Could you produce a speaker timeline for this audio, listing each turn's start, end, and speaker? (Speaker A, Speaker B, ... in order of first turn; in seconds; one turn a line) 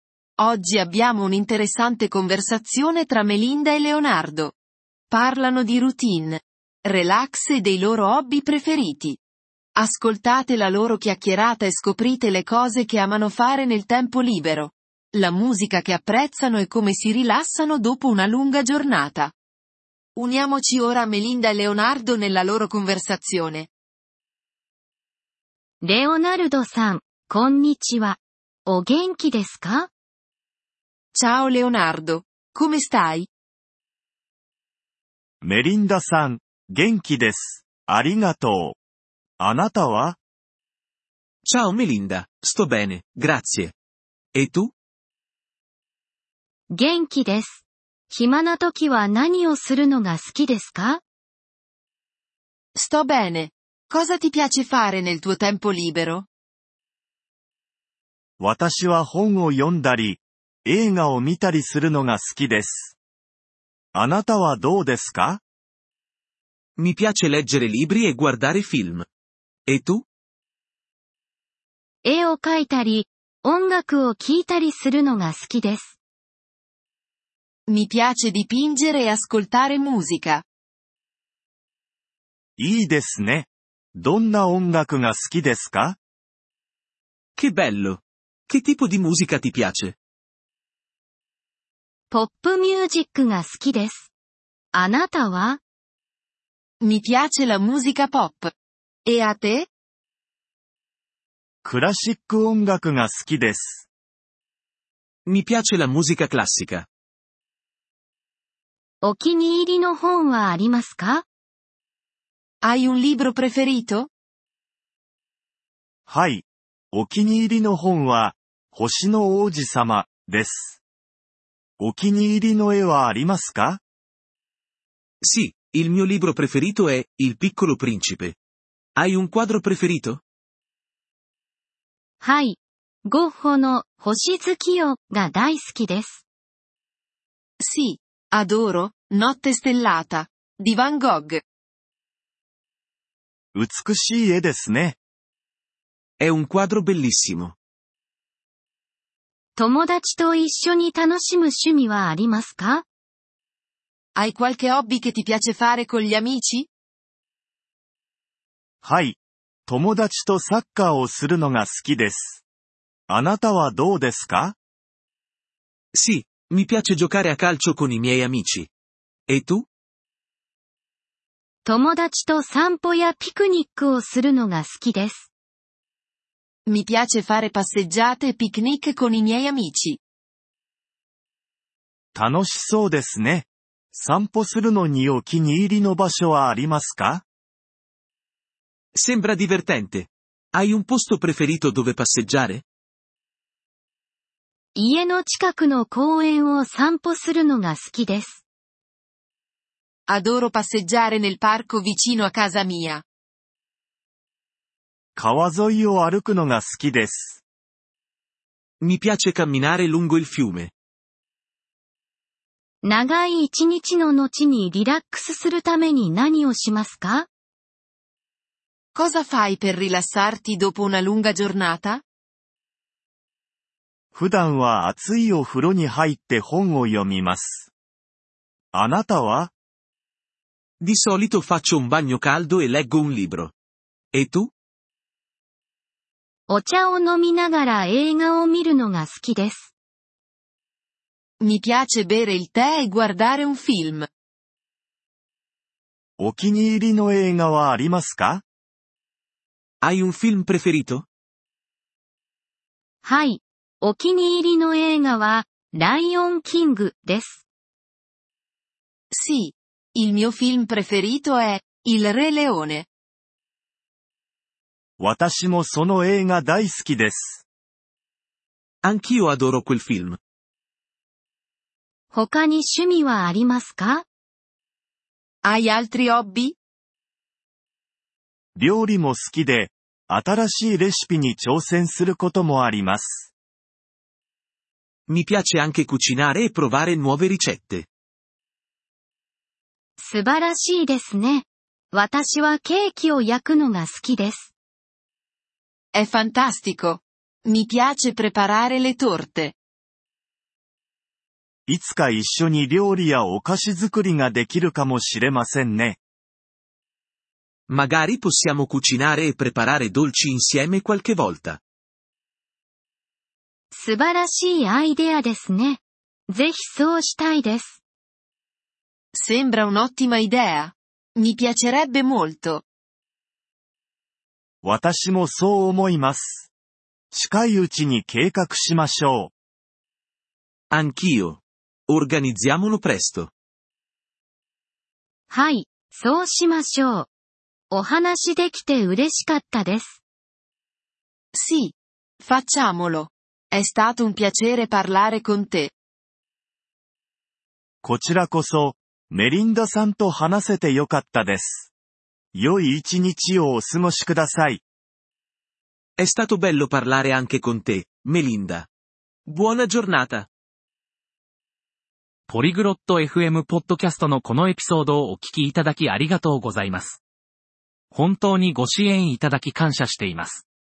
Speaker A: 0.4-4.5
Speaker A: 5.1-9.2
Speaker A: 9.8-19.3
Speaker A: 20.1-23.7
Speaker B: 25.8-29.9
Speaker A: 31.1-33.3
Speaker C: 35.4-38.8
Speaker C: 39.4-40.2
Speaker D: 41.4-43.7
Speaker D: 44.3-44.7
Speaker B: 46.7-51.0
Speaker A: 52.7-56.3
Speaker C: 58.4-63.0
Speaker C: 63.9-65.4
Speaker D: 66.8-69.1
Speaker D: 69.7-70.0
Speaker B: 72.0-76.0
Speaker A: 77.7-80.4
Speaker C: 82.6-86.0
Speaker D: 87.4-90.0
Speaker B: 92.1-94.1
Speaker B: 94.7-95.6
Speaker A: 96.8-98.5
Speaker A: 99.0-99.7
Speaker C: 101.6-103.9
Speaker D: 105.2-106.9
Speaker B: 109.0-111.2
Speaker A: 112.6-114.1
Speaker C: 116.1-120.8
Speaker C: 121.8-123.8
Speaker D: 125.2-128.4
Speaker D: 128.9-130.2
Speaker B: 132.2-136.2
Speaker A: 137.6-141.4
Speaker C: 143.5-145.0
Speaker D: 146.2-147.6
Speaker B: 149.6-152.8
Speaker A: 154.2-156.7
Speaker C: 158.8-162.4
Speaker C: 163.1-164.6
Speaker D: 165.9-168.7
Speaker D: 169.3-169.7
Speaker B: 171.6-175.3
Speaker A: 176.7-180.0
Speaker C: 182.1-187.2
Speaker D: 188.9-192.6
Speaker B: 194.8-198.4
Speaker A: 200.1-203.0
Speaker C: 205.2-207.4
Speaker D: 208.8-210.7
Speaker B: 212.8-217.3
Speaker A: 218.9-222.0
Speaker C: 224.1-227.7
Speaker C: 228.7-229.5
Speaker D: 230.8-233.5
Speaker D: 234.1-234.5
Speaker B: 236.5-239.7
Speaker A: 241.4-244.1
Speaker C: 246.2-248.4
Speaker D: 249.8-251.1
Speaker B: 253.0-257.4
Speaker A: 259.1-262.9
Speaker C: 265.0-267.4
Speaker D: 268.8-270.2
Speaker B: 272.1-274.0
Speaker A: 275.4-276.6
Speaker C: 278.5-283.3
Speaker D: 285.1-287.9
Speaker B: 290.0-294.5
Speaker A: 295.9-299.6
Speaker C: 301.7-306.0
Speaker D: 307.7-311.6
Speaker B: 313.7-317.8
Speaker A: 319.1-322.6
Speaker C: 324.6-326.5
Speaker C: 327.1-329.3
Speaker D: 330.7-333.3
Speaker B: 335.3-337.1
Speaker B: 337.7-340.0
Speaker A: 341.3-345.7
Speaker C: 347.8-351.7
Speaker C: 352.3-354.6
Speaker D: 356.0-358.7
Speaker D: 359.3-360.3
Speaker E: 362.3-367.0
Speaker E: 367.9-370.4